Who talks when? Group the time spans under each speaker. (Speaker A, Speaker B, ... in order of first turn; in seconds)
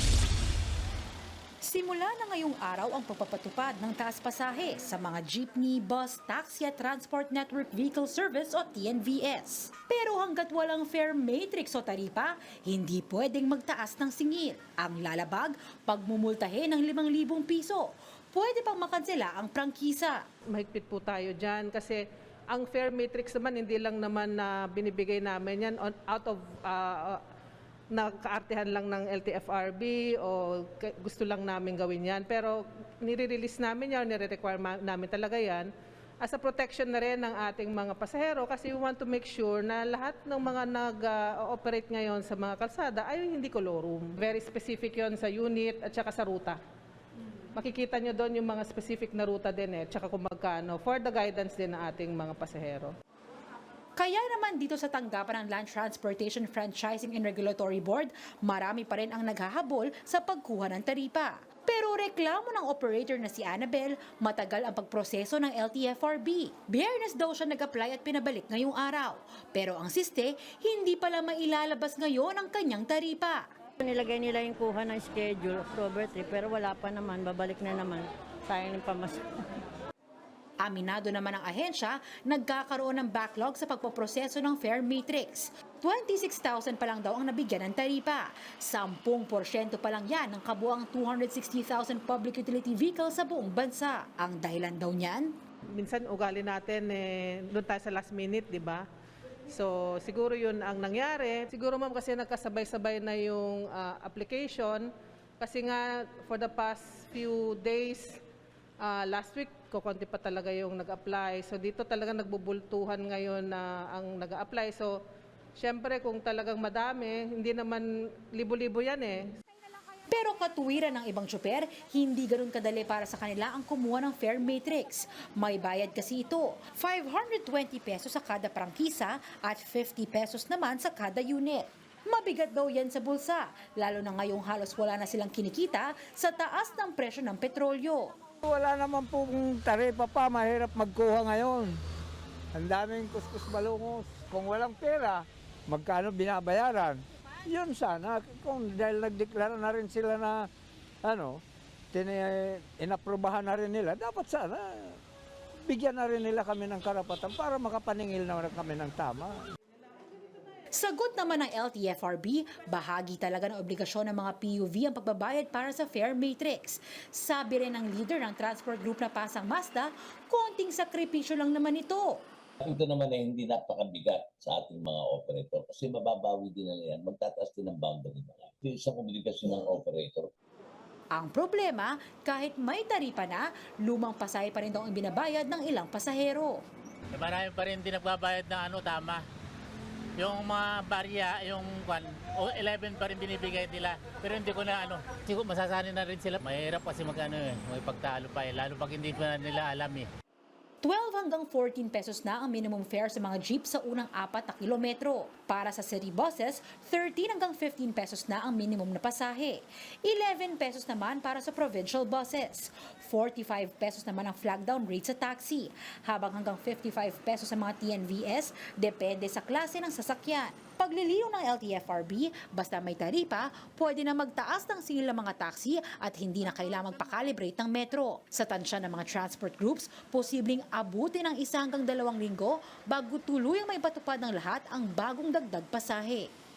Speaker A: 1.6-20.2, 54.0-73.5, 80.6-95.3, 120.1-138.1, 160.7-172.2, 181.1-186.6, 200.8-236.3
Speaker B: 20.5-27.2, 27.9-35.7, 36.2-46.6, 47.5-52.9, 95.7-98.8, 99.5-104.9, 105.4-108.2, 108.8-115.0, 115.5-119.3
Speaker C: 73.8-79.2
Speaker D: 138.4-141.8, 142.5-150.5, 151.0-151.4, 151.9-155.0, 155.7-159.4
Speaker E: 172.6-180.3
Speaker F: 187.1-189.2, 190.2-200.1